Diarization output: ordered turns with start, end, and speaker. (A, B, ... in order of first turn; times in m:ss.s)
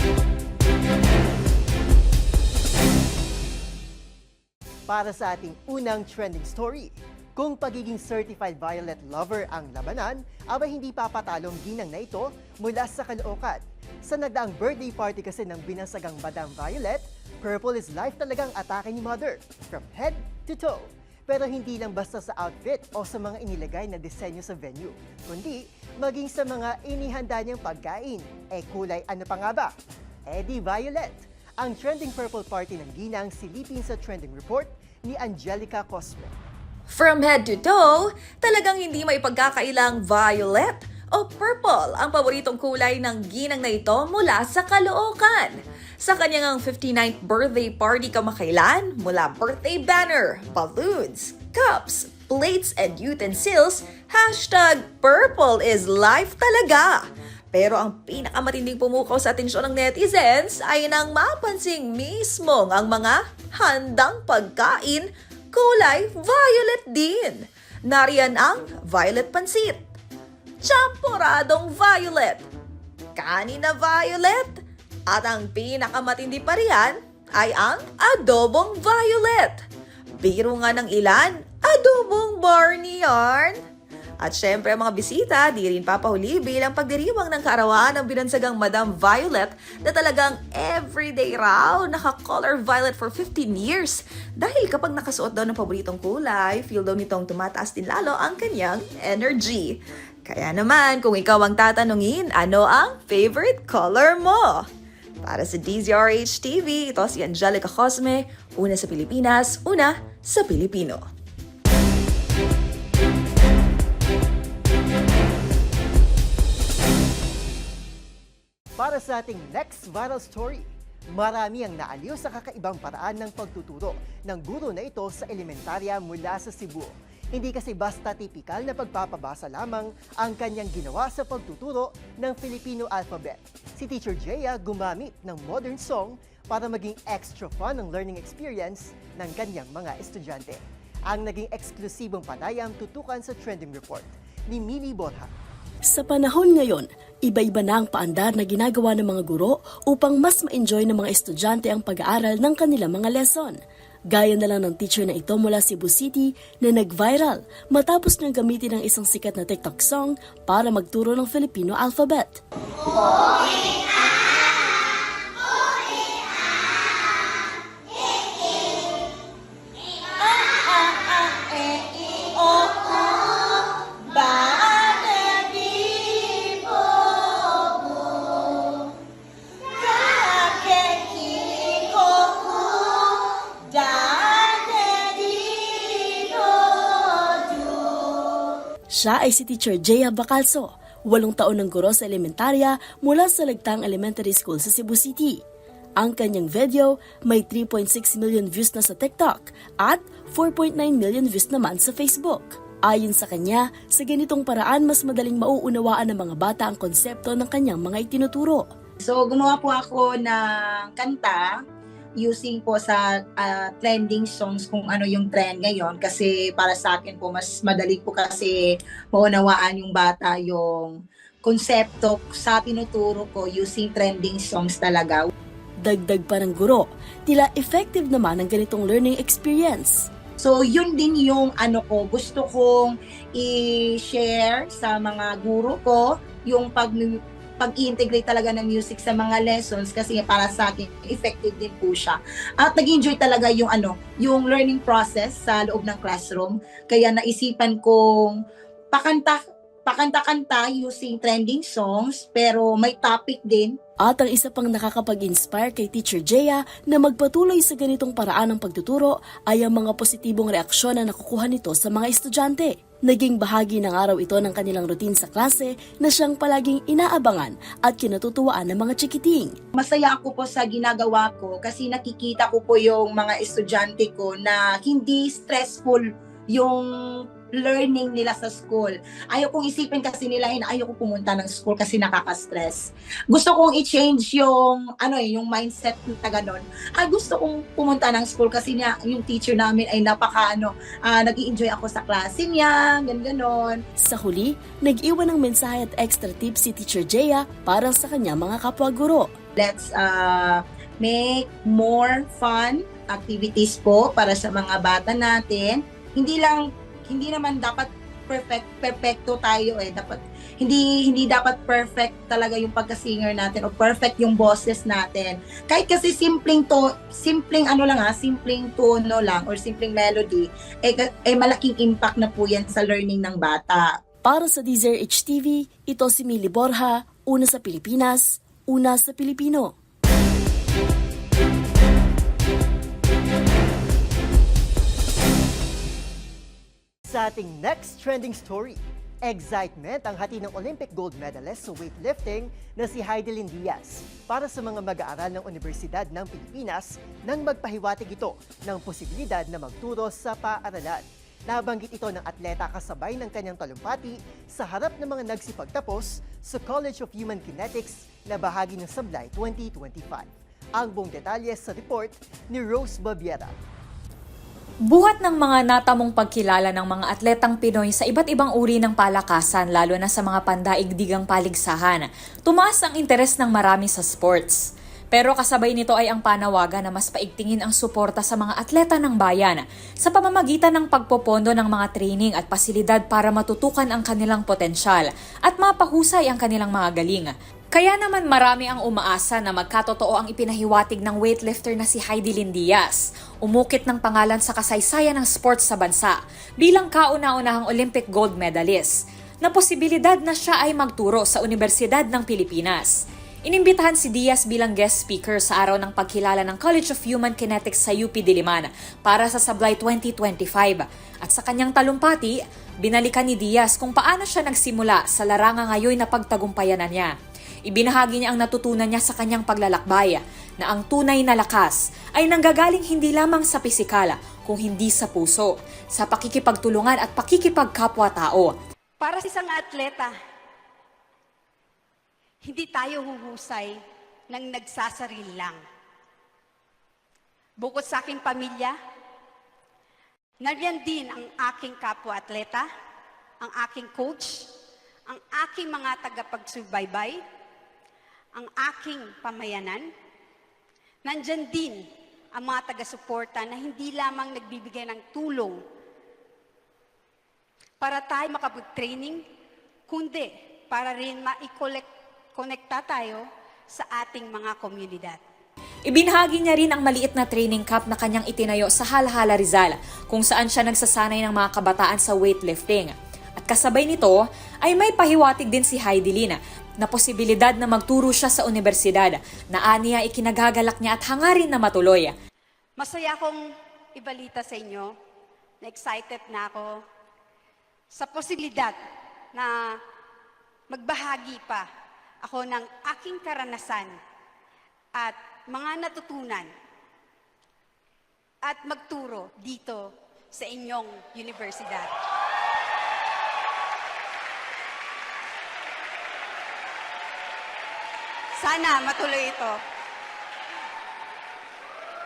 0:04.9-0:29.7 A
0:30.3-0:36.4 A
0:36.9-0:57.0 B
0:57.5-1:09.8 B
1:10.6-1:12.4 B
1:13.2-1:19.6 B
1:20.2-1:23.6 B
1:24.2-1:44.7 B
1:45.2-1:51.0 B
1:58.8-2:25.3 A
2:25.9-2:33.6 C
2:34.2-2:42.4 C
2:43.2-2:43.7 D
2:50.2-2:58.9 D
2:59.8-3:08.5 D
3:09.0-3:15.4 C
3:16.0-3:28.6 C
3:29.0-3:31.6 D
3:32.2-3:45.3 D
3:45.9-3:50.1 C
3:50.4-4:08.4 D
4:08.9-4:13.8 D
4:14.1-4:29.6 C
4:29.7-4:53.8 D
4:54.0-4:59.3 C
4:59.6-5:24.0 D
5:24.3-5:29.7 C
5:37.1-6:03.6 A
6:04.9-6:57.1 E
6:57.7-7:08.5 E
7:09.0-7:10.1 F
7:12.4-7:13.8 F
7:14.3-7:15.6 F
7:17.6-7:18.8 F
7:20.4-7:22.7 F
7:23.4-7:24.5 F
7:25.1-7:27.2 F
7:28.4-7:29.9 F
7:31.0-7:35.6 F
7:37.8-7:39.2 F
7:39.9-7:45.2 F
7:45.9-8:02.1 E
8:02.8-8:03.4 F
8:04.0-8:04.9 F
8:05.6-8:06.7 F
8:07.9-8:08.8 F
8:10.7-8:11.6 F
8:12.2-8:14.0 F
8:15.0-8:16.5 F
8:18.5-8:21.9 F
8:28.4-8:29.6 F